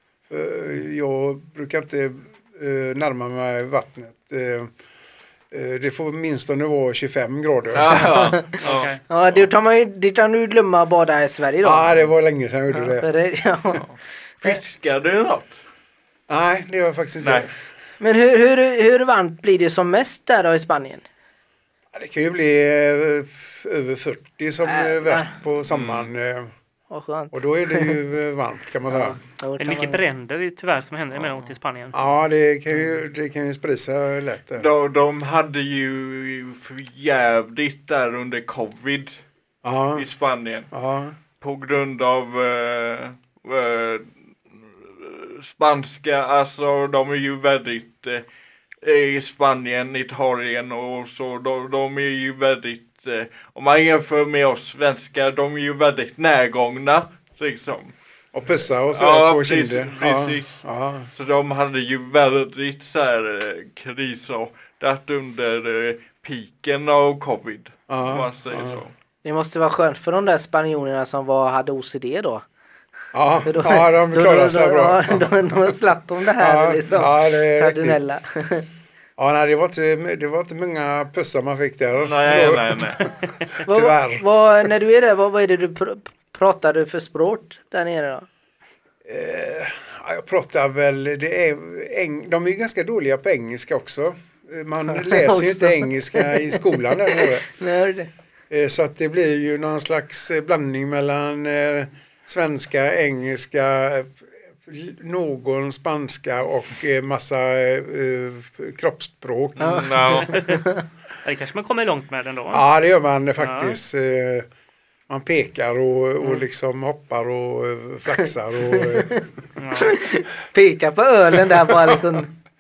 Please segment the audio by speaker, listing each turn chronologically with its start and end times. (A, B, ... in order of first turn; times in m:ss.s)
0:00.3-0:04.7 A
0:05.5-0:08.3 A
0:07.7-0:09.0 B
0:08.1-0:11.9 C
0:08.6-0:09.0 D
0:11.6-0:13.1 A
0:12.7-0:13.9 C
0:13.8-0:15.6 B
0:16.3-0:17.5 A
0:17.2-0:17.5 B
0:18.0-0:21.0 C
0:21.9-0:26.5 A
0:24.6-0:25.3 C
0:25.7-0:26.1 B
0:26.9-0:27.9 C
0:27.3-0:29.2 A
0:28.9-0:30.0 C
0:29.6-0:32.0 D
0:31.2-0:31.5 B
0:31.9-0:34.7 A
0:34.6-0:39.2 B
0:39.6-0:40.1 A
0:40.0-0:40.7 B
0:40.7-0:41.2 A
0:41.4-0:48.2 B
0:48.8-0:57.9 B
0:58.3-1:01.1 A
0:58.9-1:00.6 B
1:01.1-1:08.9 B
1:07.9-1:08.8 A
1:09.2-1:12.4 C
1:13.1-1:15.5 A
1:13.4-1:18.7 C
1:16.4-1:18.0 A
1:19.2-1:24.2 A
1:22.0-1:23.1 B
1:23.6-1:28.3 C
1:29.1-1:37.5 A
1:34.9-1:38.1 C
1:38.5-1:50.0 A
1:49.6-1:50.4 B
1:49.6-1:50.8 C
1:50.2-1:50.6 D
1:51.2-1:52.7 D
1:52.5-1:54.5 A
1:53.4-1:53.8 D
1:55.1-1:59.2 A
1:58.7-2:02.3 C
1:59.6-2:00.0 D